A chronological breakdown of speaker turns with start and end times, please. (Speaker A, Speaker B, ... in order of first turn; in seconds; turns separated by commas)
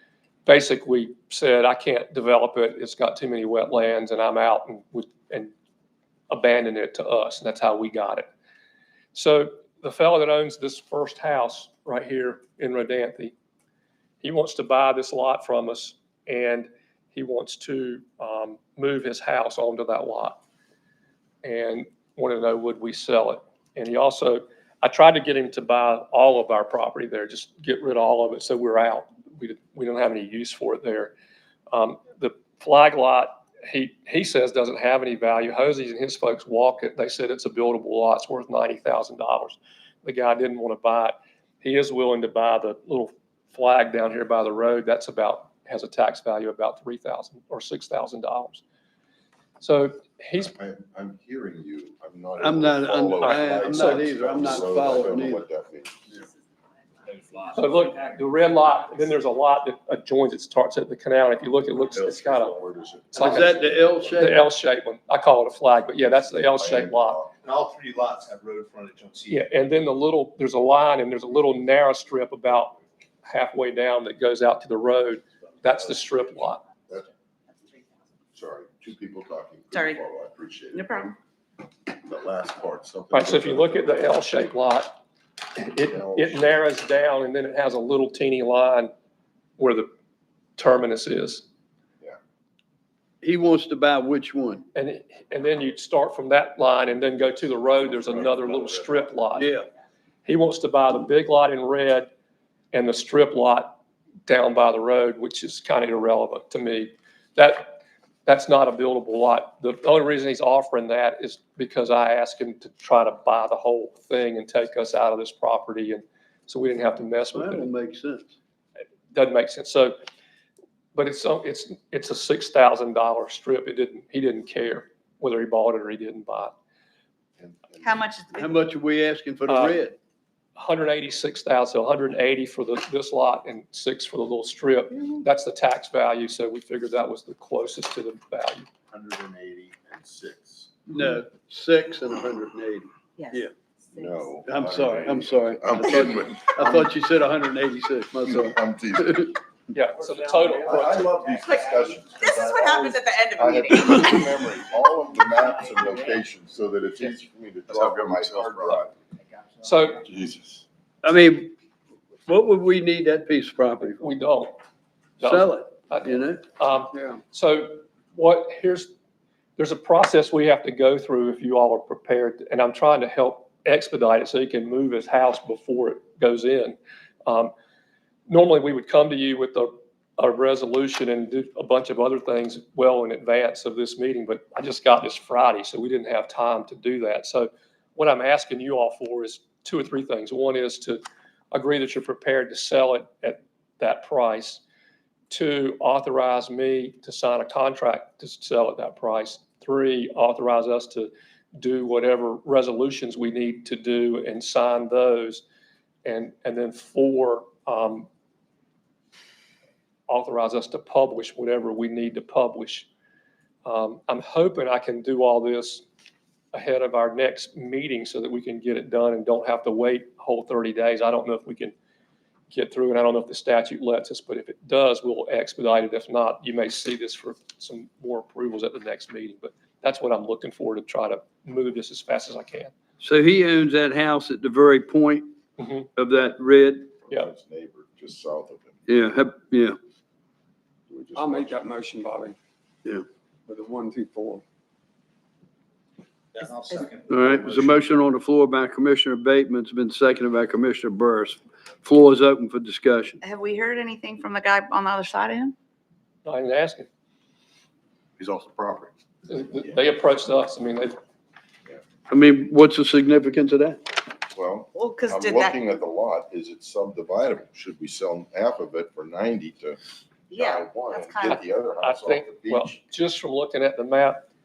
Speaker A: 0.4-5.5, Speaker A: 6.3-8.3, Speaker A: 9.1-13.3, Speaker A: 14.2-20.4, Speaker A: 21.4-31.1, Speaker A: 31.7-48.6, Speaker A: 49.6-50.5, Speaker B: 50.4-56.1, Speaker C: 52.4-55.4, Speaker A: 53.2-54.1, Speaker A: 57.5-62.5, Speaker B: 61.9-64.2, Speaker A: 63.1-63.6, Speaker C: 63.1-64.5, Speaker A: 64.2-67.2, Speaker B: 65.8-67.3, Speaker D: 67.4-69.5, Speaker A: 69.3-76.6, Speaker B: 78.3-81.1, Speaker E: 79.7-80.0, Speaker E: 80.7-81.2, Speaker B: 81.9-84.2, Speaker A: 83.1-85.0, Speaker A: 85.5-88.9, Speaker B: 85.8-86.7, Speaker A: 89.6-89.9, Speaker A: 90.6-91.4, Speaker C: 93.2-94.6, Speaker A: 94.7-99.5, Speaker B: 97.8-99.1, Speaker C: 99.3-99.7, Speaker A: 100.2-102.1, Speaker A: 102.7-117.7, Speaker C: 117.3-118.3, Speaker A: 119.1-120.0, Speaker A: 120.9-126.5, Speaker B: 127.4-128.1, Speaker E: 127.8-128.5, Speaker C: 128.3-129.9, Speaker A: 129.5-129.8, Speaker A: 130.6-138.7, Speaker B: 138.9-140.7, Speaker C: 140.9-143.5, Speaker B: 143.9-146.9, Speaker E: 143.9-144.2, Speaker C: 144.4-148.5, Speaker B: 148.2-149.4, Speaker A: 149.7-151.1, Speaker B: 150.5-158.9, Speaker E: 151.6-154.2, Speaker D: 157.9-158.4, Speaker A: 159.6-160.0, Speaker C: 161.0-161.5, Speaker C: 162.3-164.0, Speaker A: 163.8-164.5, Speaker A: 165.2-168.9, Speaker C: 165.2-166.4, Speaker A: 169.6-177.5, Speaker A: 178.3-191.0, Speaker A: 191.5-194.6, Speaker A: 195.3-205.4, Speaker A: 206.0-208.1, Speaker A: 210.1-212.9, Speaker A: 213.6-215.8, Speaker A: 216.5-221.7, Speaker A: 222.5-232.7, Speaker C: 233.0-235.3, Speaker A: 235.6-235.9, Speaker C: 235.9-236.9, Speaker B: 237.0-238.8, Speaker C: 238.9-239.8, Speaker F: 240.9-242.3, Speaker B: 241.1-241.5, Speaker F: 243.5-244.4, Speaker D: 246.3-247.7, Speaker C: 247.1-253.2, Speaker E: 253.2-255.5, Speaker A: 256.2-256.9, Speaker B: 258.2-258.9, Speaker A: 259.3-261.0, Speaker C: 262.1-263.8, Speaker B: 264.3-269.8, Speaker E: 264.7-265.6, Speaker E: 270.3-271.4, Speaker B: 270.3-272.8, Speaker A: 271.3-274.2